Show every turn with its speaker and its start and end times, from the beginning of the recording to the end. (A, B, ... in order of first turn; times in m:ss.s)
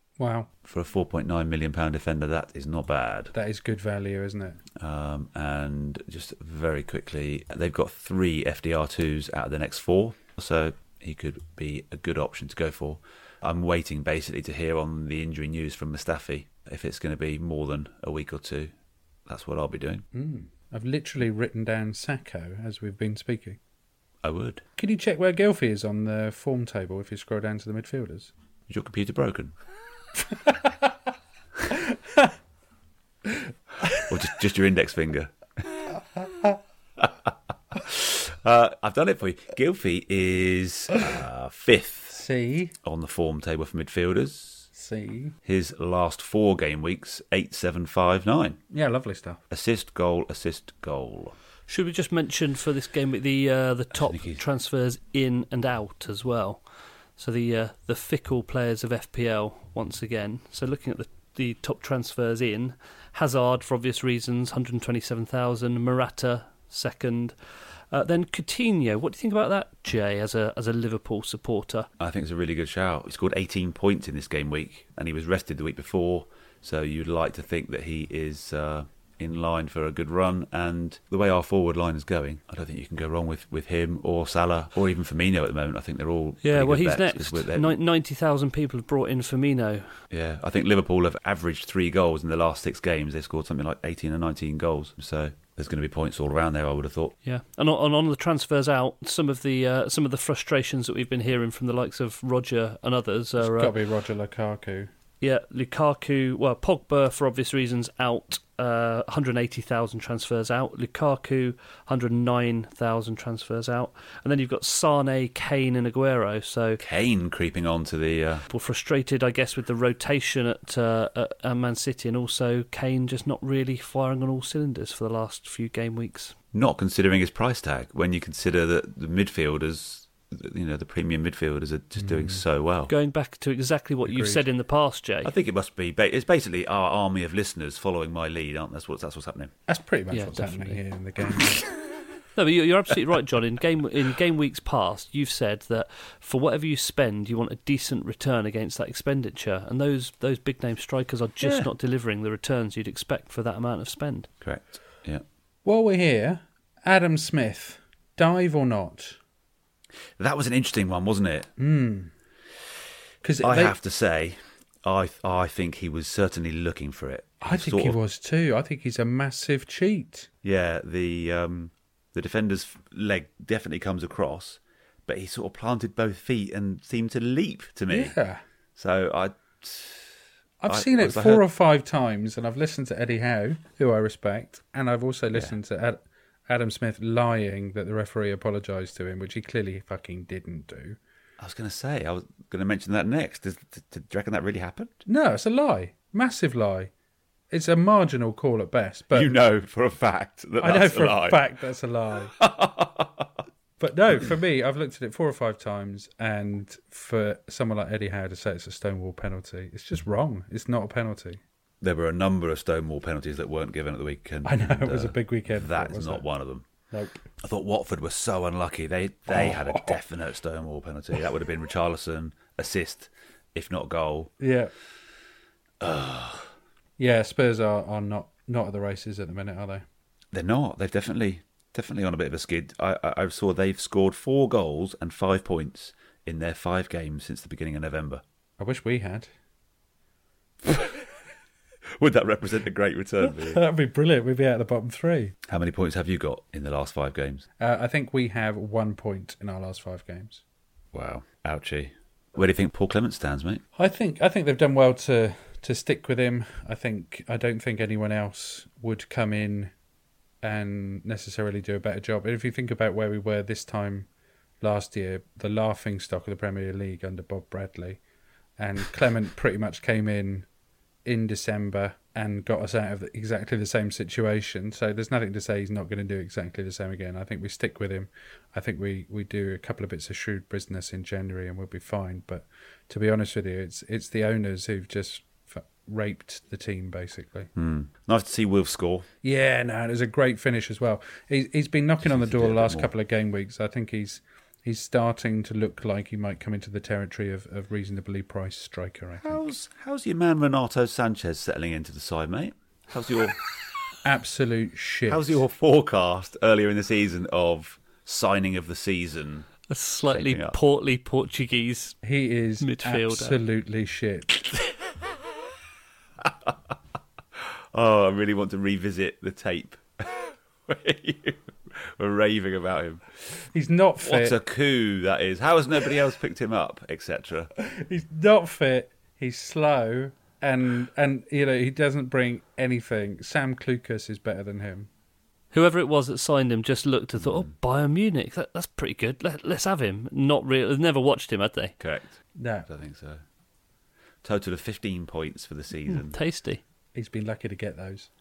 0:00.2-0:00.5 A
0:00.6-0:03.3 B
0:03.3-0:04.6 A
0:04.8-0:18.7 B
0:19.3-0:20.0 B
0:20.1-0:23.6 A
0:24.2-0:24.6 B
0:24.8-0:28.3 A
0:28.7-0:29.5 B
0:31.7-0:32.3 A
0:34.1-0:35.8 B
0:37.7-0:42.2 B
0:42.1-0:42.7 A
0:42.8-0:44.7 B
0:44.7-0:45.4 A
0:45.4-0:48.6 B
0:48.7-0:49.4 A
0:49.5-0:51.4 B
0:51.7-0:56.6 C
0:53.9-0:54.4 B
0:57.2-1:07.4 C
1:07.9-1:11.9 C
1:12.0-1:27.8 B
1:26.4-1:30.0 C
1:30.1-1:37.2 B
1:37.2-1:43.8 C
1:43.4-1:44.9 A
1:45.2-1:56.8 C
1:56.8-1:58.4 B
1:58.5-2:06.4 C
2:06.5-2:12.9 B
2:12.0-2:12.4 A
2:12.9-2:15.3 C
2:14.1-2:14.4 A
2:15.2-2:19.5 B
2:19.7-2:21.6 A
2:20.1-2:20.8 C
2:22.4-2:34.3 C
2:31.4-2:31.7 B
2:34.4-2:35.2 B
2:35.6-2:39.2 A
2:40.2-2:41.5 B
2:41.6-2:42.1 A
2:43.2-2:43.8 A
2:43.4-2:48.0 B
2:47.4-2:50.3 A
2:50.4-2:58.1 B
2:57.9-2:58.4 A
2:58.8-3:00.1 B
3:00.6-3:11.0 A
3:00.7-3:01.5 B
3:11.4-3:15.0 B
3:15.1-3:16.9 A
3:17.5-3:19.3 A
3:19.1-3:21.5 B
3:20.6-3:22.4 A
3:22.4-3:23.3 B
3:23.8-3:31.4 A
3:31.8-3:36.6 B
3:34.4-3:36.2 A
3:36.9-3:37.2 A
3:37.4-3:44.3 B
3:39.3-3:40.0 A
3:44.4-3:44.7 A
3:45.8-3:46.5 B
3:47.0-3:49.8 A
3:50.3-3:58.2 B
3:58.6-3:59.3 A
4:00.6-4:01.0 B
4:02.0-4:03.6 B
4:03.2-4:05.4 A
4:05.5-4:07.5 B
4:07.6-4:10.4 A
4:10.9-4:13.6 B
4:13.8-4:19.7 A
4:20.4-4:24.1 A
4:24.6-4:28.0 A
4:28.6-4:30.5 A
4:31.0-4:47.5 A
4:47.6-4:49.1 B
4:49.2-4:59.5 A
4:52.0-4:52.9 B
4:59.2-5:03.4 B
5:04.0-5:05.4 A
5:05.1-5:09.5 B
5:09.7-5:12.0 C
5:10.1-5:10.6 B
5:12.0-5:14.3 A
5:12.6-5:13.4 C
5:16.2-5:16.5 B
5:17.4-5:23.2 B
5:23.5-5:24.4 A
5:24.0-5:27.5 B
5:27.6-5:34.9 A
5:35.5-5:41.7 C
5:37.2-5:37.5 B
5:41.8-5:43.2 B
5:42.4-5:42.7 A
5:44.2-5:46.2 B
5:45.9-5:46.6 C
5:47.0-5:48.1 A